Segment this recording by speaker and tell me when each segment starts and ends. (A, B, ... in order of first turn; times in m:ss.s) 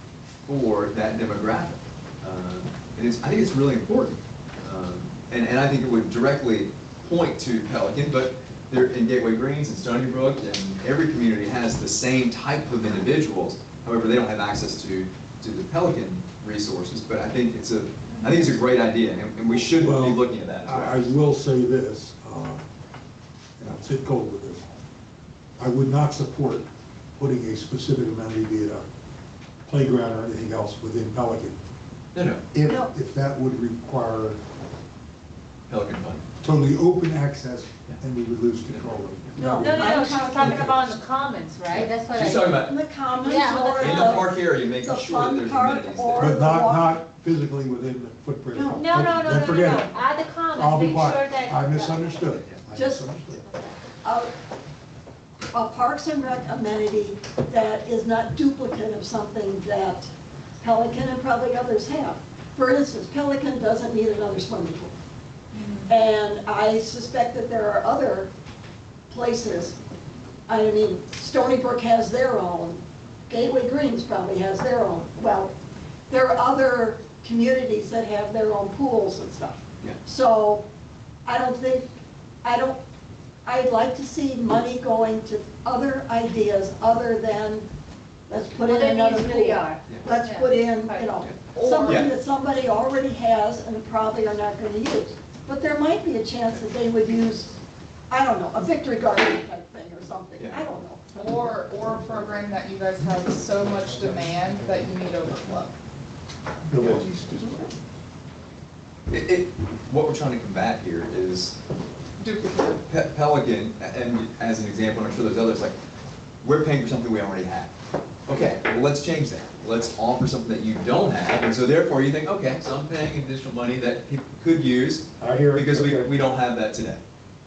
0:00.4-0:21.1 A
0:19.6-0:22.6 B
0:23.6-0:24.6 B
0:25.6-0:26.6 B
0:27.2-0:28.8 B
0:29.6-0:31.6 B
0:32.1-0:32.4 A
0:32.5-0:34.4 B
0:32.6-0:32.9 C
0:35.7-0:36.2 A
0:36.4-0:40.8 B
0:38.7-0:39.3 A
0:39.4-0:40.8 C
0:39.6-0:42.6 D
0:41.7-0:42.7 A
0:42.5-0:47.0 C
0:43.2-0:44.3 D
0:43.8-0:46.3 A
0:46.2-0:49.9 B
0:48.5-0:49.0 C
0:48.7-0:52.3 D
0:50.5-0:53.4 B
0:52.7-0:53.0 C
0:53.4-0:53.8 D
0:54.0-0:54.3 C
0:55.5-1:04.9 C
1:05.5-1:05.9 E
1:05.9-1:08.3 C
1:09.1-1:09.8 C
1:10.5-1:15.5 C
1:16.1-1:20.6 C
1:21.2-1:21.9 C
1:22.4-1:22.8 C
1:23.4-1:27.7 C
1:28.3-1:41.5 C
1:28.6-1:31.2 D
1:31.2-1:32.1 A
1:31.4-1:32.1 E
1:40.4-1:40.6 A
1:41.1-1:45.8 E
1:42.0-1:42.4 B
1:43.0-1:44.9 B
1:46.6-1:47.7 B
1:46.7-1:47.6 E
1:49.1-1:51.6 A
1:52.2-1:52.8 E
1:52.8-1:55.7 A
1:56.4-1:57.7 A
1:58.3-2:07.0 A
2:05.2-2:06.2 B